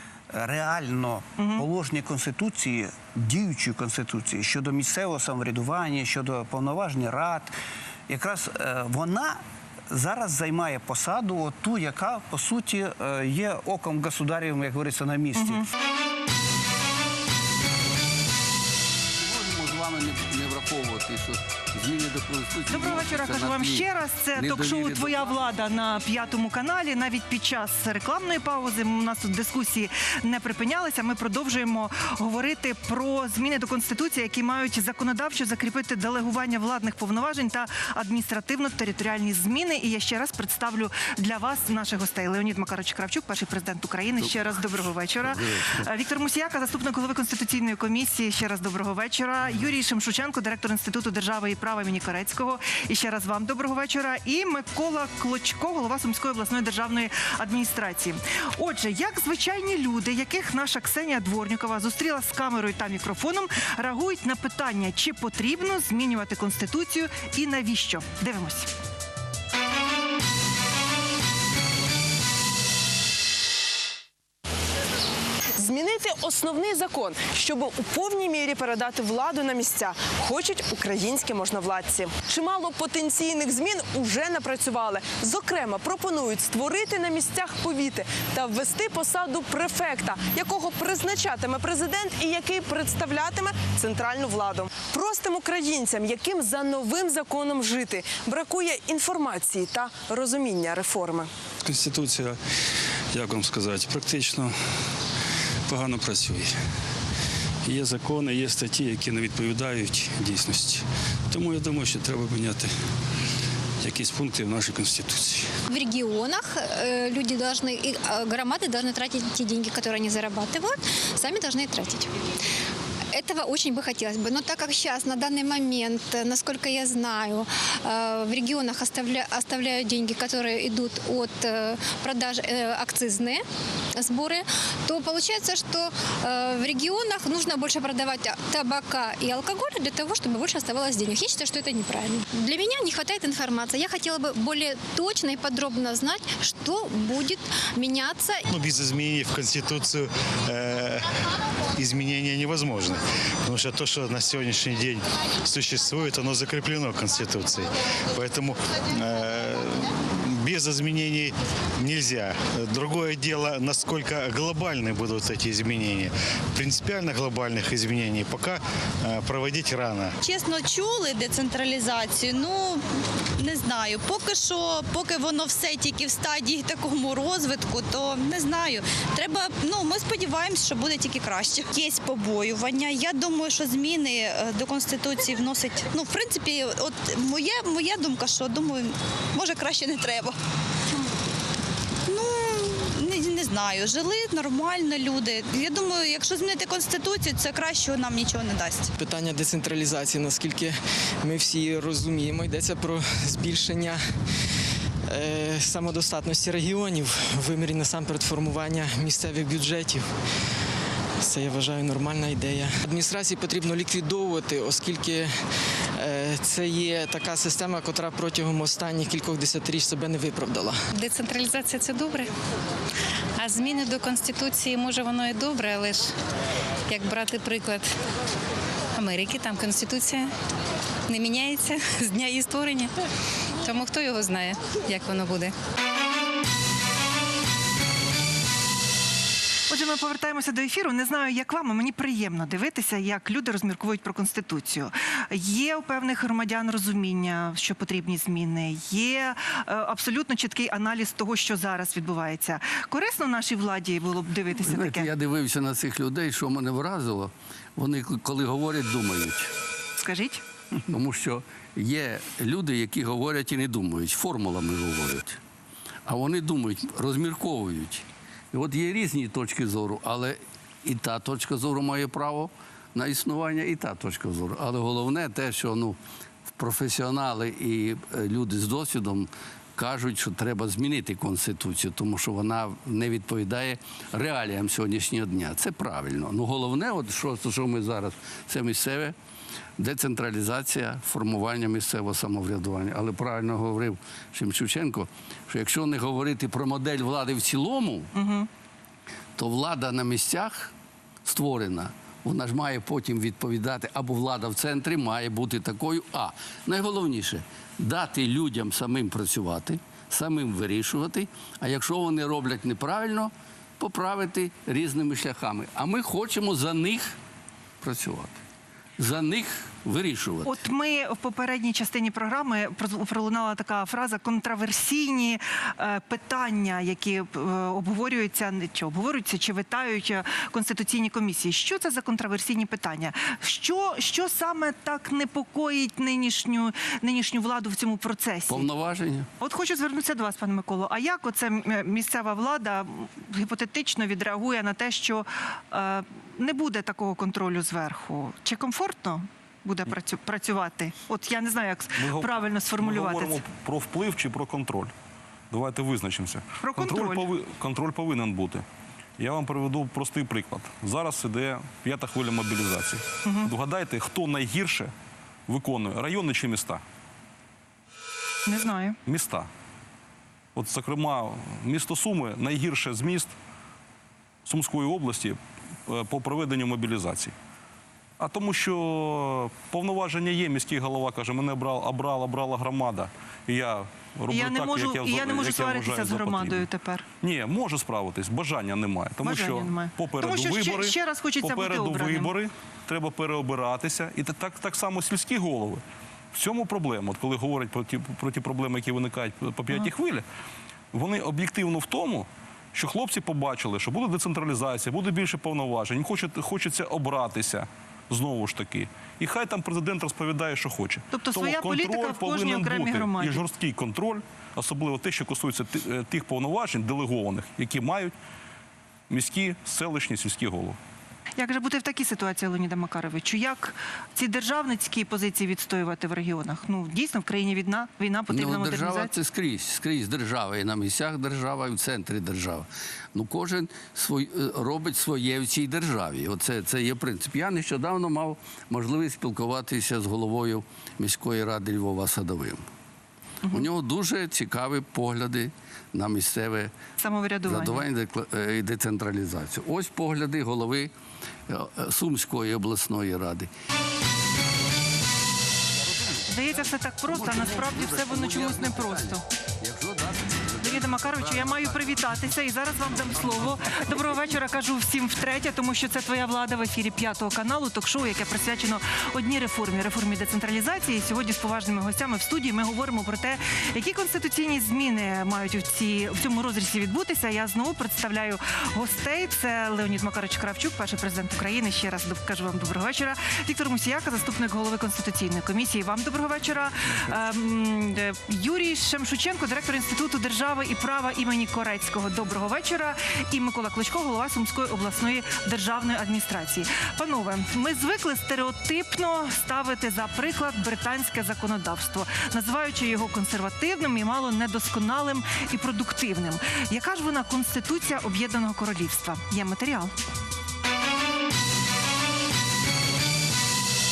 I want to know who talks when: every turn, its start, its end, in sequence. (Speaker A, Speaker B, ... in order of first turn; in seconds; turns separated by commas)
Speaker A: 0.3-7.5, Speaker B: 1.4-1.6, Speaker A: 8.1-15.6, Speaker B: 15.4-15.6, Speaker C: 19.2-25.5, Speaker B: 22.7-68.7, Speaker C: 44.2-44.6, Speaker C: 45.2-45.9, Speaker D: 75.6-101.3, Speaker E: 101.6-102.4, Speaker E: 103.1-104.5, Speaker E: 105.7-106.5, Speaker E: 107.7-112.7, Speaker E: 113.8-115.5, Speaker F: 115.7-122.1, Speaker F: 123.1-133.4, Speaker F: 133.9-148.4, Speaker G: 148.5-151.1, Speaker G: 151.8-170.2, Speaker H: 170.2-172.8, Speaker H: 173.4-190.3, Speaker H: 192.1-198.9, Speaker I: 199.0-204.0, Speaker I: 205.1-210.1, Speaker I: 211.2-215.3, Speaker I: 215.9-220.8, Speaker J: 220.9-222.3, Speaker J: 223.4-226.1, Speaker J: 226.9-227.9, Speaker J: 228.9-230.3, Speaker J: 231.1-232.9, Speaker J: 233.6-235.5, Speaker B: 239.7-255.1, Speaker C: 254.6-259.5, Speaker B: 260.0-260.4, Speaker C: 260.9-265.4, Speaker C: 266.1-276.0, Speaker C: 276.5-289.2, Speaker C: 289.8-298.1, Speaker B: 298.1-298.5, Speaker C: 299.4-300.7, Speaker C: 301.2-317.2, Speaker C: 317.8-318.4, Speaker C: 319.0-320.6, Speaker B: 320.4-338.7, Speaker C: 338.5-339.3, Speaker B: 339.4-353.4, Speaker K: 352.0-354.9, Speaker K: 355.5-358.6, Speaker B: 356.6-357.3, Speaker K: 359.2-364.9, Speaker B: 363.2-363.5, Speaker K: 365.5-366.8, Speaker B: 368.5-369.0, Speaker K: 369.1-369.5, Speaker K: 370.6-373.3, Speaker K: 374.4-377.3, Speaker K: 378.2-386.6, Speaker B: 384.3-387.1, Speaker K: 387.2-395.8, Speaker B: 389.2-392.3, Speaker K: 396.3-400.2, Speaker K: 400.9-418.1, Speaker B: 411.1-413.4, Speaker K: 419.1-420.8, Speaker B: 421.4-429.1, Speaker C: 428.3-442.6, Speaker C: 443.5-446.7, Speaker B: 447.0-447.8, Speaker C: 447.4-450.9, Speaker C: 451.5-453.5, Speaker C: 455.8-462.2, Speaker B: 456.3-459.2, Speaker B: 460.6-509.9, Speaker C: 462.9-464.2